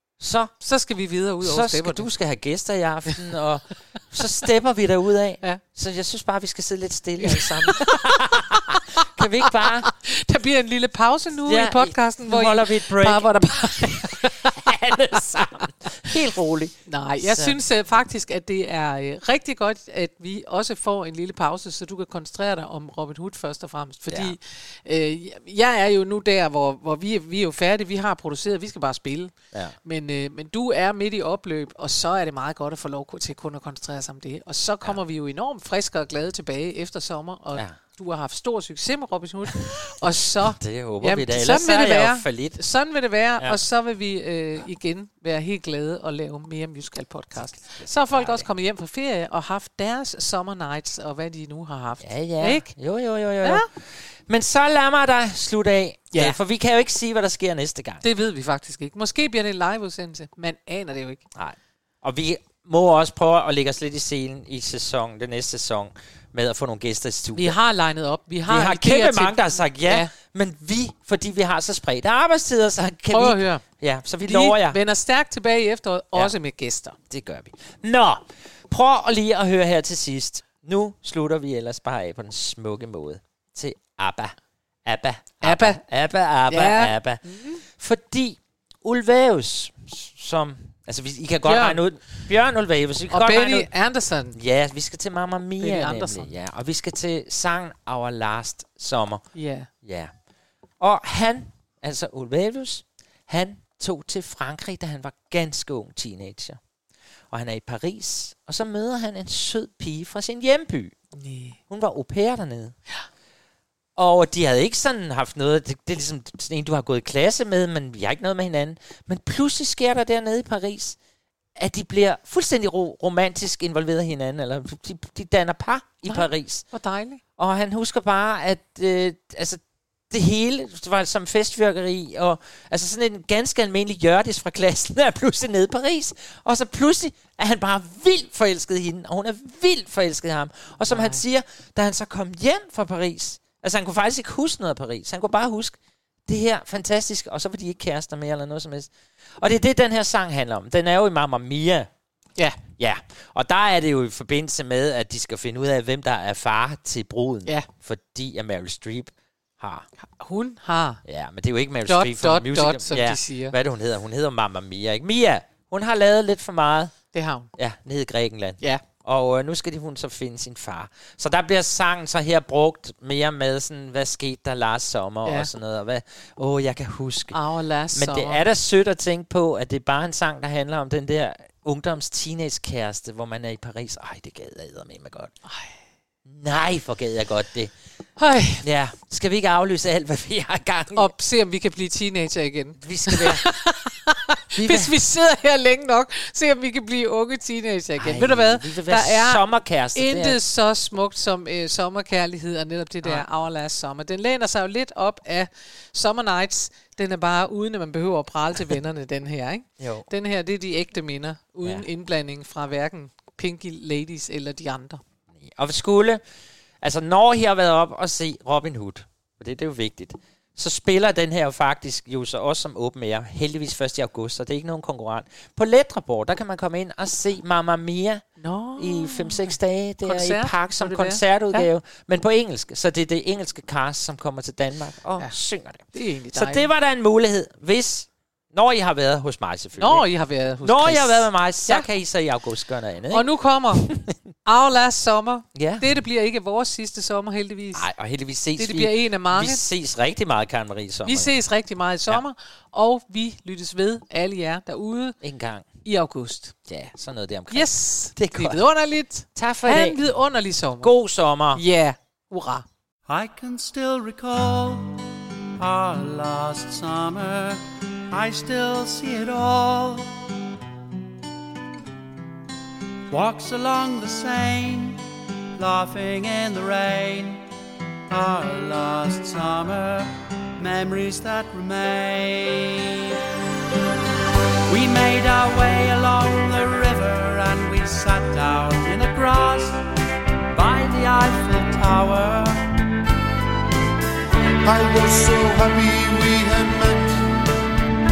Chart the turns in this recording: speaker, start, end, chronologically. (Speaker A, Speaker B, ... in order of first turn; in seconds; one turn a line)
Speaker A: 0.2-0.5
Speaker B: 0.6-2.1
Speaker A: 1.4-9.9
Speaker B: 7.3-8.8
Speaker B: 9.9-14.5
Speaker A: 11.4-17.6
Speaker B: 16.9-29.3
Speaker A: 24.1-24.3
Speaker B: 29.8-52.7
Speaker A: 40.3-42.6
Speaker A: 47.8-48.5
Speaker A: 52.0-58.0
Speaker B: 58.0-61.2
Speaker A: 61.3-67.5
Speaker B: 67.3-70.1
Speaker A: 68.5-74.8
Speaker B: 73.1-73.6
Speaker B: 74.2-77.0
Speaker A: 77.1-93.7
Speaker B: 85.4-85.8
Speaker B: 86.5-87.6
Speaker B: 91.4-92.3
Speaker B: 93.1-94.3
Speaker A: 94.3-100.1
Speaker B: 95.6-96.3
Speaker B: 99.3-99.7
Speaker A: 100.8-106.6
Speaker A: 107.3-111.0
Speaker B: 111.2-111.6
Speaker A: 111.7-112.8
Speaker A: 114.0-121.0
Speaker A: 121.5-126.7
Speaker B: 126.0-127.2
Speaker A: 127.4-151.9
Speaker B: 140.8-141.2
Speaker A: 152.8-159.8
Speaker B: 160.0-161.0
Speaker A: 161.0-166.9
Speaker B: 161.8-163.6
Speaker B: 167.1-167.5
Speaker A: 167.6-177.4
Speaker B: 177.3-178.4
Speaker A: 177.9-185.3
Speaker B: 185.4-185.8
Speaker A: 186.2-187.7
Speaker B: 188.2-188.6
Speaker A: 188.6-191.1
Speaker B: 190.9-215.0
Speaker A: 192.8-193.5
Speaker A: 194.6-194.9
Speaker A: 198.0-200.4
Speaker A: 209.8-210.1
Speaker A: 215.4-216.2
Speaker A: 216.8-228.2
Speaker B: 228.4-231.7
Speaker A: 228.8-240.1
Speaker B: 235.9-236.7
Speaker B: 239.8-241.9
Speaker A: 240.6-244.1
Speaker B: 243.1-243.9
Speaker B: 244.4-247.9
Speaker A: 245.5-245.9
Speaker A: 247.7-251.4
Speaker B: 248.6-249.6
Speaker B: 251.0-255.2
Speaker A: 255.2-255.7
Speaker B: 255.8-256.5
Speaker A: 256.7-258.6
Speaker B: 257.5-260.9
Speaker A: 259.3-260.0
Speaker A: 260.8-261.6
Speaker B: 261.5-262.6
Speaker C: 263.1-264.9
Speaker C: 265.6-270.1
Speaker C: 273.1-275.0
Speaker C: 275.6-277.4
Speaker C: 278.1-283.1
Speaker C: 284.7-289.8
Speaker C: 290.5-292.6
Speaker D: 294.6-297.4